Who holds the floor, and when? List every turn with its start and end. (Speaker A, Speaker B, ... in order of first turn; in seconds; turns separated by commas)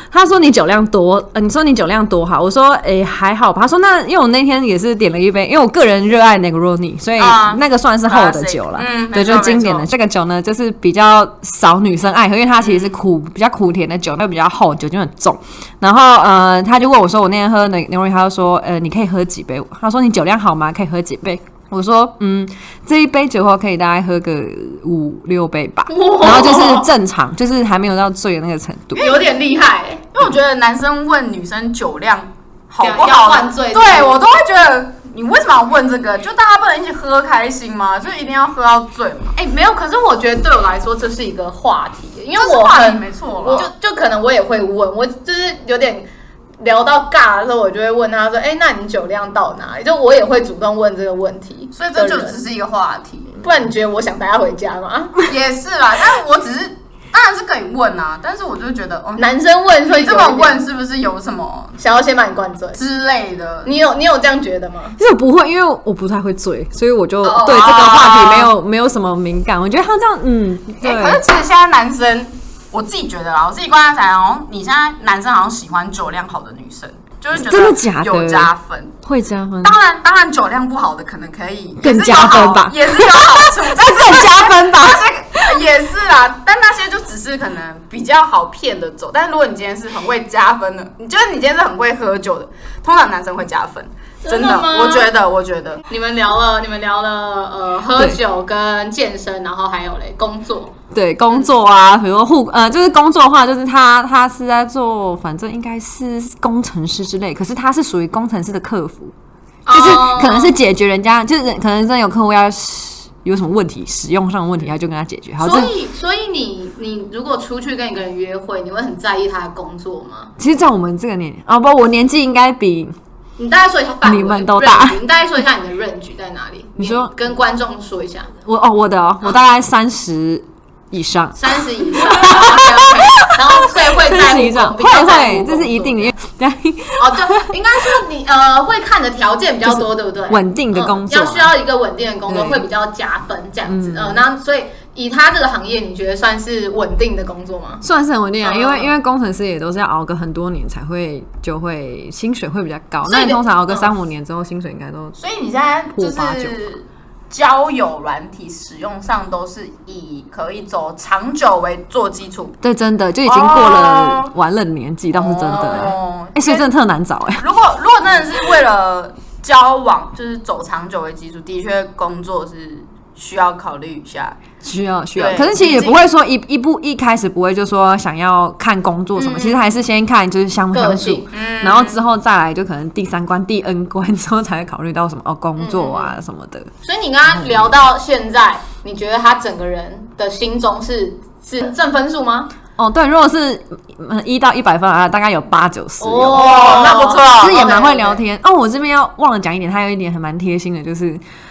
Speaker A: 0.1-29.1, Speaker B: 7.2-9.9, Speaker B: 12.6-13.0, Speaker C: 25.9-26.9, Speaker B: 28.9-29.3, Speaker C: 29.0-30.1, Speaker B: 30.1-39.4, Speaker C: 32.8-34.2, Speaker C: 39.4-46.1, Speaker B: 42.4-43.7, Speaker C: 46.6-52.4, Speaker B: 51.8-53.4, Speaker C: 53.4-55.2, Speaker B: 55.3-59.3, Speaker C: 59.2-60.6, Speaker B: 59.8-61.8, Speaker C: 61.8-62.8, Speaker B: 62.8-63.7, Speaker C: 63.6-65.0, Speaker A: 65.0-71.2, Speaker B: 67.2-68.5, Speaker B: 70.8-79.0, Speaker A: 77.3-78.5, Speaker A: 79.0-79.8, Speaker B: 79.6-95.8, Speaker A: 81.8-85.6, Speaker C: 94.2-95.1, Speaker C: 95.9-100.7, Speaker A: 97.9-98.2, Speaker A: 100.9-109.1, Speaker C: 109.7-110.5, Speaker A: 109.7-115.7, Speaker C: 115.4-120.3, Speaker A: 120.4-123.0, Speaker C: 123.4-128.3, Speaker A: 124.0-125.0, Speaker A: 126.8-127.1, Speaker A: 128.4-137.6, Speaker C: 131.4-136.1, Speaker C: 137.0-147.8, Speaker A: 139.6-141.5, Speaker A: 142.3-142.7, Speaker A: 143.7-144.2, Speaker A: 147.8-155.2, Speaker C: 148.4-148.9, Speaker C: 153.1-153.9, Speaker B: 155.2-162.6, Speaker A: 155.9-156.7, Speaker A: 162.6-167.5, Speaker B: 163.3-164.3, Speaker B: 165.1-166.7, Speaker B: 167.4-174.4, Speaker A: 174.6-186.7, Speaker B: 175.2-176.0, Speaker C: 179.2-179.6, Speaker C: 180.7-181.3, Speaker B: 181.3-182.0, Speaker C: 185.6-186.2, Speaker C: 186.8-192.5, Speaker A: 187.3-187.7, Speaker A: 192.8-201.2, Speaker C: 196.0-198.2, Speaker B: 196.3-197.6